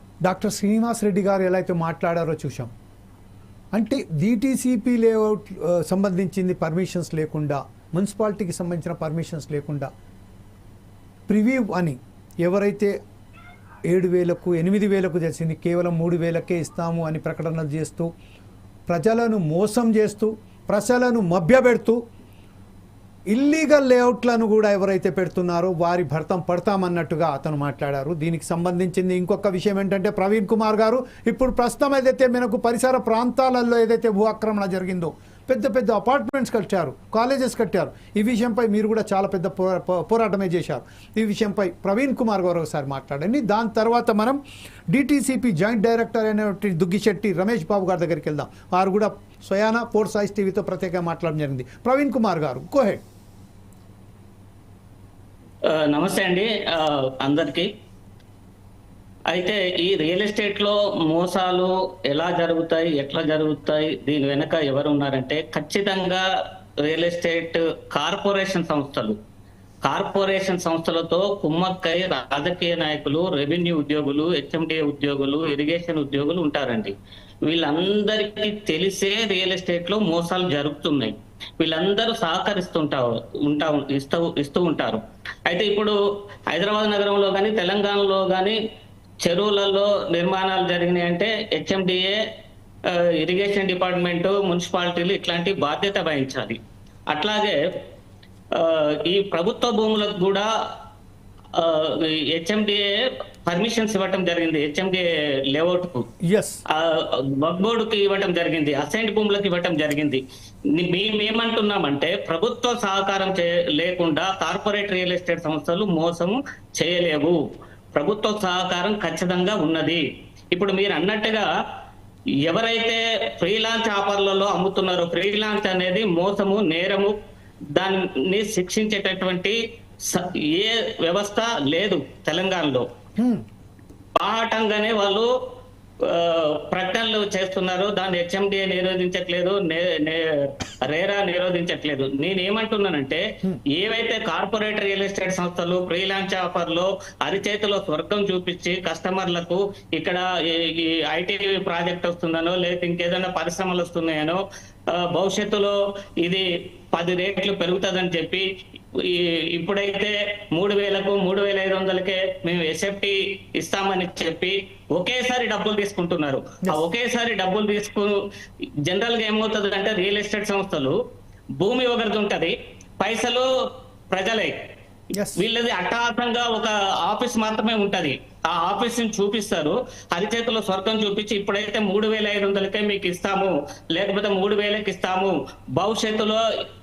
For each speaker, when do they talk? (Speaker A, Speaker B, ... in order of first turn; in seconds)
Speaker A: 0.2-2.7, 3.7-9.9, 11.3-13.0, 13.9-18.1, 18.9-22.0, 23.3-53.0, 106.3-106.6, 133.2-133.4, 175.1-175.4
Speaker B: 55.7-57.7, 59.3-66.3, 66.8-69.2, 69.8-77.0, 77.5-86.0, 86.5-88.6, 89.2-92.2, 92.8-96.6, 97.1-97.6, 98.5-100.5, 101.5-102.9, 103.5-106.1, 106.7-110.2, 110.7-117.4, 117.9-121.5, 122.4-127.1, 127.8-132.9, 134.2-135.3, 136.0-168.2, 168.9-171.0, 171.6-174.6, 175.4-186.4